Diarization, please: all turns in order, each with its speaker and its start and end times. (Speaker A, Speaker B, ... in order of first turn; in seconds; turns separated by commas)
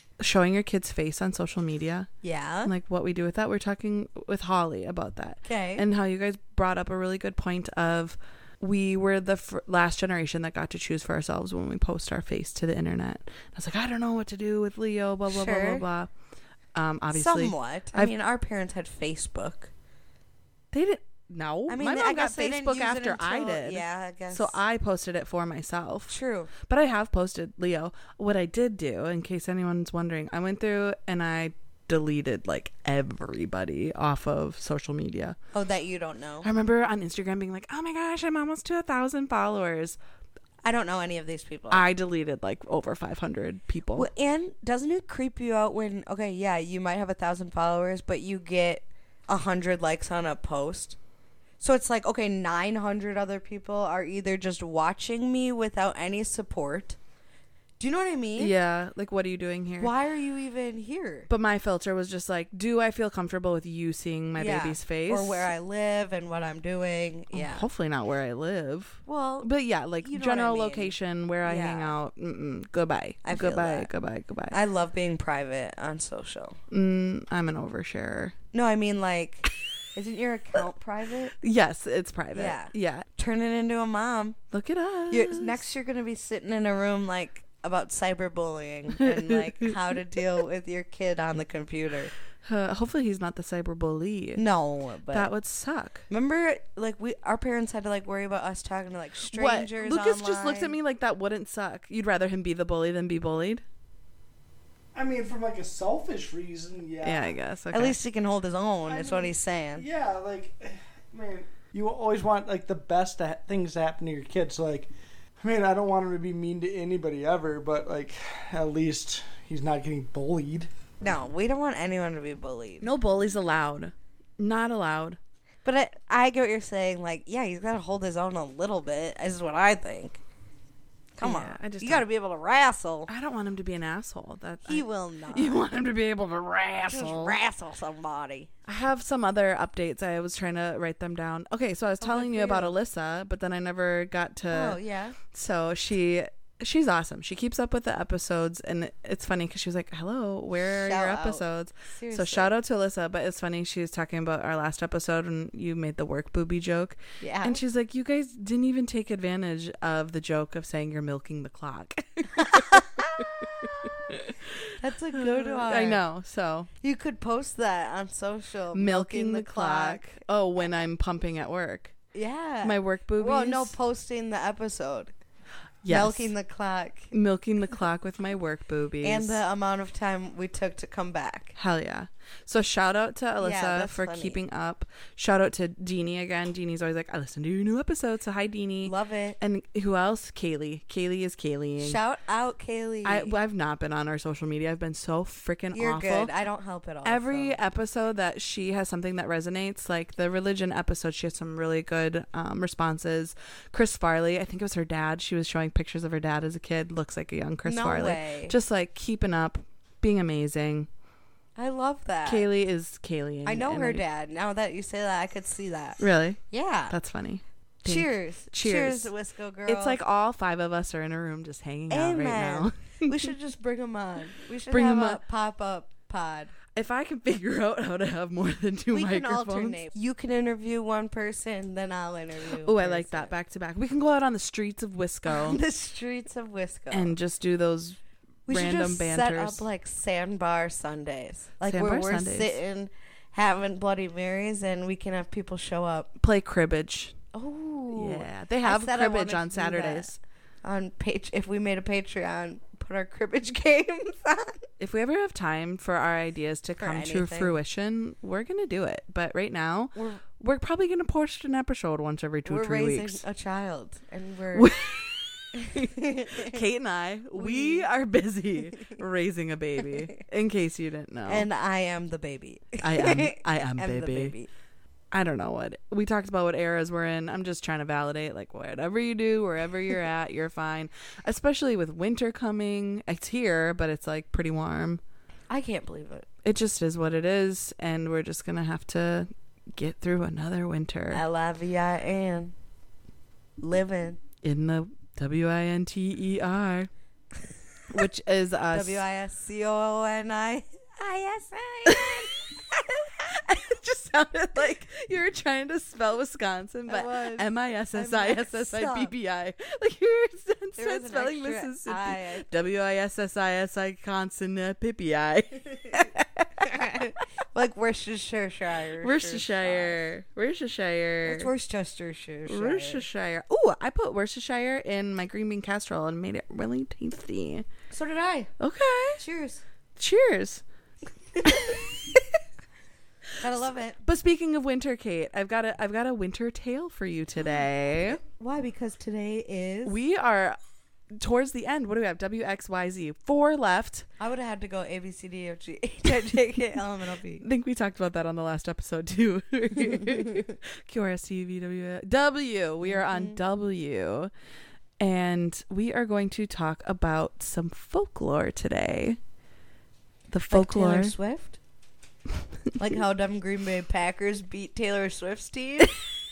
Speaker A: 0.2-2.1, Speaker B: 2.2-2.7, Speaker A: 2.6-16.1, Speaker B: 5.5-5.8, Speaker B: 15.3-15.8, Speaker A: 16.8-18.1, Speaker B: 17.1-19.7, Speaker A: 20.7-35.4, Speaker B: 21.7-24.6, Speaker B: 26.1-26.5, Speaker B: 35.5-36.5, Speaker A: 36.4-40.0, Speaker B: 40.6-41.9, Speaker A: 41.7-44.1, Speaker B: 44.0-51.0, Speaker B: 51.6-57.0, Speaker B: 57.8-58.5, Speaker A: 58.4-59.9, Speaker B: 59.8-61.3, Speaker A: 61.3-65.5, Speaker B: 64.4-67.7, Speaker A: 67.3-74.5, Speaker B: 69.1-69.5, Speaker B: 70.0-71.9, Speaker B: 73.2-73.9, Speaker B: 74.5-76.6, Speaker A: 76.7-78.3, Speaker B: 78.5-81.3, Speaker A: 81.4-83.1, Speaker B: 82.3-84.4, Speaker A: 84.5-85.6, Speaker B: 85.1-92.1, Speaker A: 89.0-89.7, Speaker A: 92.4-94.4, Speaker B: 94.4-95.3, Speaker A: 95.1-96.0, Speaker B: 96.1-100.8, Speaker A: 99.3-103.6, Speaker C: 104.9-107.3, Speaker A: 107.0-108.0, Speaker B: 107.7-109.9, Speaker C: 108.9-120.7, Speaker B: 121.0-122.9, Speaker A: 122.8-125.2, Speaker B: 125.7-130.2, Speaker B: 131.2-133.1, Speaker A: 131.2-132.1, Speaker A: 133.1-137.4, Speaker B: 134.7-135.7, Speaker B: 136.9-138.5, Speaker A: 138.7-166.7, Speaker B: 142.0-142.8, Speaker B: 144.5-145.2, Speaker B: 150.6-152.5, Speaker B: 157.2-157.6, Speaker B: 162.3-163.9, Speaker B: 164.8-166.0, Speaker B: 166.8-170.1, Speaker A: 168.7-171.9, Speaker B: 172.1-175.1, Speaker A: 172.6-173.7, Speaker A: 175.8-176.3, Speaker B: 175.9-177.1, Speaker A: 177.1-179.4, Speaker B: 179.0-181.5, Speaker A: 181.6-192.0, Speaker B: 183.4-184.4, Speaker B: 188.8-189.4, Speaker B: 191.8-193.3, Speaker A: 193.1-196.3, Speaker B: 195.7-197.6, Speaker A: 197.0-210.9, Speaker B: 207.7-208.6, Speaker B: 211.6-212.5, Speaker A: 212.2-214.0, Speaker B: 213.4-216.0, Speaker A: 216.0-219.1, Speaker B: 216.5-216.9, Speaker B: 217.8-220.0, Speaker A: 219.7-223.3, Speaker B: 221.9-226.5, Speaker A: 224.7-225.2, Speaker A: 226.7-229.8, Speaker B: 228.9-233.3, Speaker A: 232.6-235.6, Speaker B: 235.3-237.2, Speaker A: 236.9-239.7, Speaker B: 238.5-246.1, Speaker A: 241.7-242.6, Speaker A: 246.2-247.2, Speaker B: 247.3-254.7, Speaker A: 247.9-250.2, Speaker A: 254.8-263.2, Speaker B: 256.8-257.6, Speaker B: 259.9-260.2, Speaker B: 262.5-264.7, Speaker A: 264.5-271.5, Speaker B: 265.5-266.6, Speaker B: 267.4-267.9, Speaker B: 271.3-274.5, Speaker A: 272.8-274.4, Speaker A: 275.1-285.0, Speaker B: 285.5-286.3, Speaker A: 286.4-291.2, Speaker B: 291.1-292.5, Speaker B: 293.6-294.2, Speaker A: 294.4-296.9, Speaker A: 297.9-299.0, Speaker B: 298.7-302.5, Speaker A: 301.9-302.6, Speaker A: 303.2-316.3, Speaker B: 306.9-309.1, Speaker B: 310.8-312.4, Speaker B: 316.6-320.0, Speaker A: 319.0-321.5, Speaker B: 321.2-323.1, Speaker A: 322.5-327.6, Speaker B: 327.9-328.5, Speaker A: 328.6-329.2, Speaker B: 329.2-329.6, Speaker A: 330.0-330.6, Speaker B: 331.4-331.8, Speaker A: 331.4-331.9, Speaker B: 333.4-334.0, Speaker A: 334.0-338.2, Speaker B: 338.2-340.0, Speaker A: 339.9-340.6, Speaker A: 341.2-344.1, Speaker B: 344.2-347.4, Speaker A: 347.4-354.3, Speaker B: 352.8-353.4, Speaker A: 355.0-359.2, Speaker A: 360.3-361.1, Speaker B: 360.5-361.6, Speaker B: 362.8-366.0